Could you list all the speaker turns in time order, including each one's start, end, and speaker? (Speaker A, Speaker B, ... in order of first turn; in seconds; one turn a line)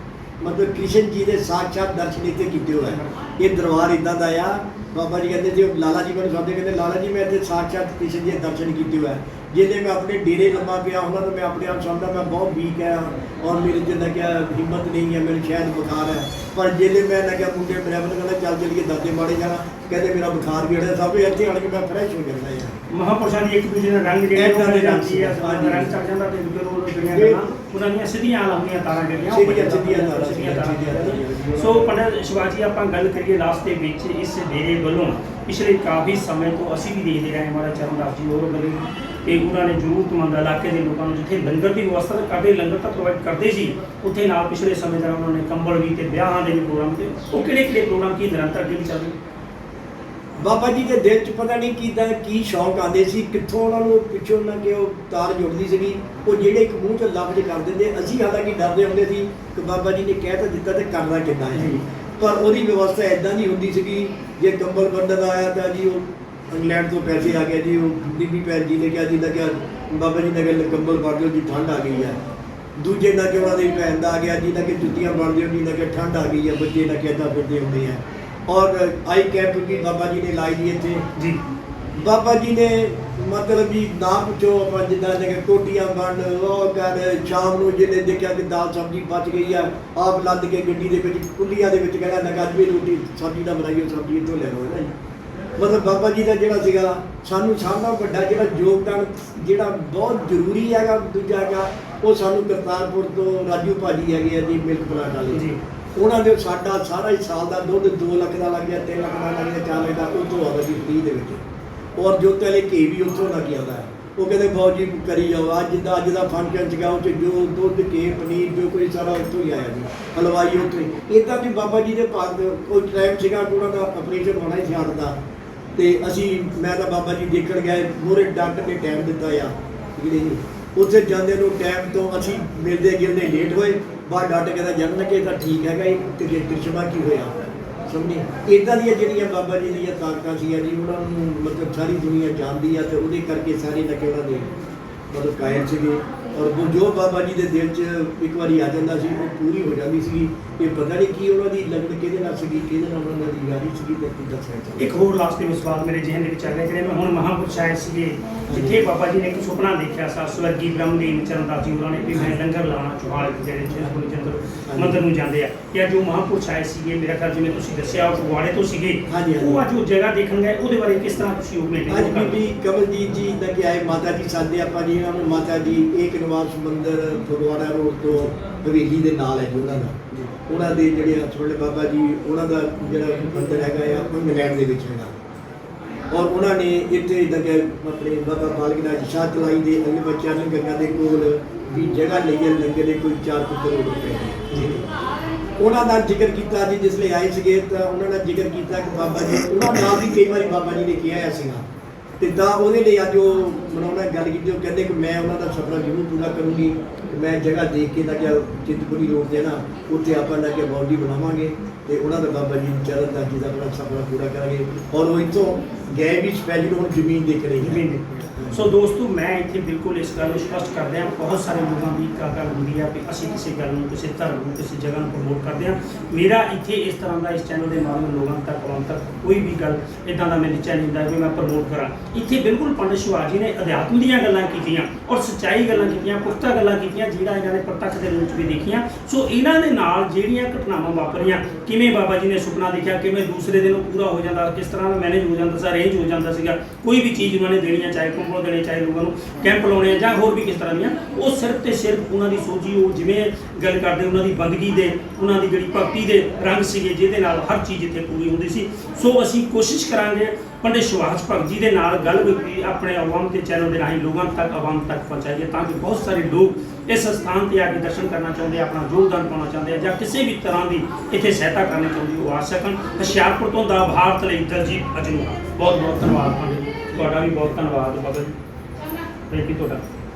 Speaker A: 0.4-22.8
Speaker B: 22.9-49.1
Speaker A: 24.3-26.0
Speaker A: 27.0-27.4
Speaker A: 29.3-31.9
Speaker A: 50.4-72.2
Speaker B: 61.5-61.8
Speaker A: 72.8-81.0
Speaker A: 82.0-94.9
Speaker A: 95.6-105.4
Speaker B: 105.3-105.6
Speaker A: 106.0-111.4
Speaker A: 112.0-125.2
Speaker A: 125.8-137.3
Speaker A: 137.9-144.5
Speaker A: 145.1-154.9
Speaker B: 154.8-172.4
Speaker A: 158.5-158.8
Speaker A: 164.7-165.0
Speaker A: 169.1-169.6
Speaker A: 171.9-185.2
Speaker A: 186.1-194.8
Speaker B: 194.5-194.8
Speaker A: 195.6-201.6
Speaker A: 202.2-217.8
Speaker B: 217.6-278.4
Speaker A: 218.3-218.6
Speaker B: 279.3-279.8